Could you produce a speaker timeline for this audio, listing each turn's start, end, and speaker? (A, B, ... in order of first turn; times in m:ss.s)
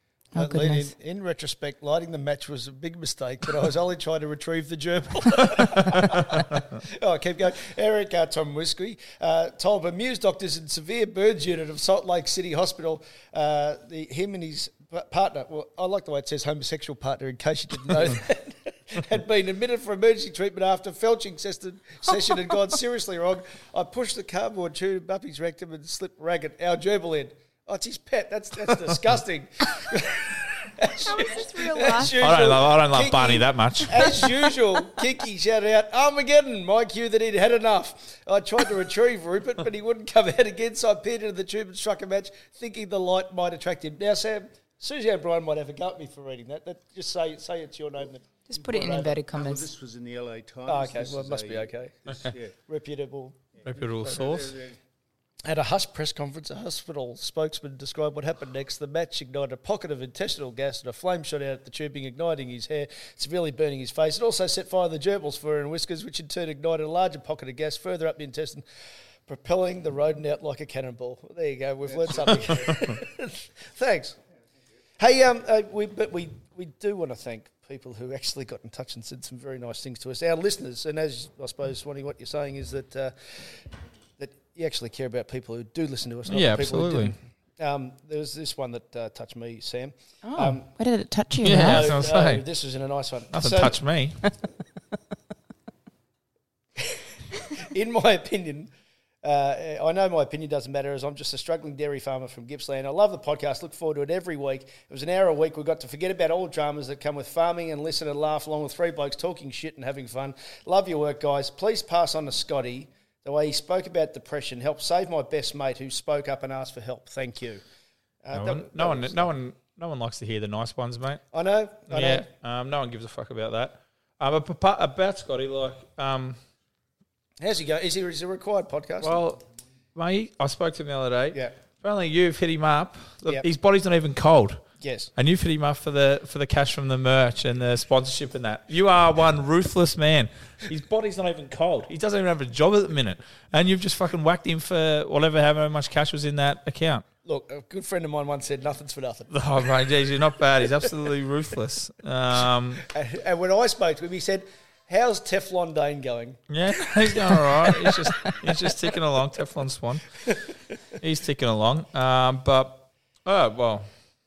0:00.3-0:00.9 A
0:00.4-0:49.1 B
0:31.1-0:32.2 A
0:32.2-0:34.1 C
0:48.5-0:49.6 A
0:49.3-0:52.5 D
0:50.7-0:53.4 B
0:53.6-0:54.5 C
0:54.0-0:54.5 B
0:54.2-0:54.6 D
0:55.4-1:08.6 B
1:09.3-1:14.2 B
1:15.0-1:23.6 B
1:24.2-1:30.6 B
1:26.3-1:27.1 C
1:30.2-1:31.9 A
1:31.4-1:32.4 C
1:31.5-1:33.7 B
1:33.3-1:34.2 C
1:37.6-1:38.7 B
1:39.2-1:57.6 B
1:58.2-1:59.3 B
1:58.3-2:01.2 C
2:01.3-2:02.3 B
2:01.9-2:06.4 C
2:07.4-2:09.2 B
2:09.0-2:09.4 C
2:09.9-2:14.6 C
2:14.8-2:15.1 B
2:15.2-2:27.0 C
2:27.2-2:29.3 B
2:29.3-2:32.8 C
2:32.8-2:36.4 B
2:36.5-2:40.2 C
2:37.8-2:38.3 B
2:41.0-2:43.9 C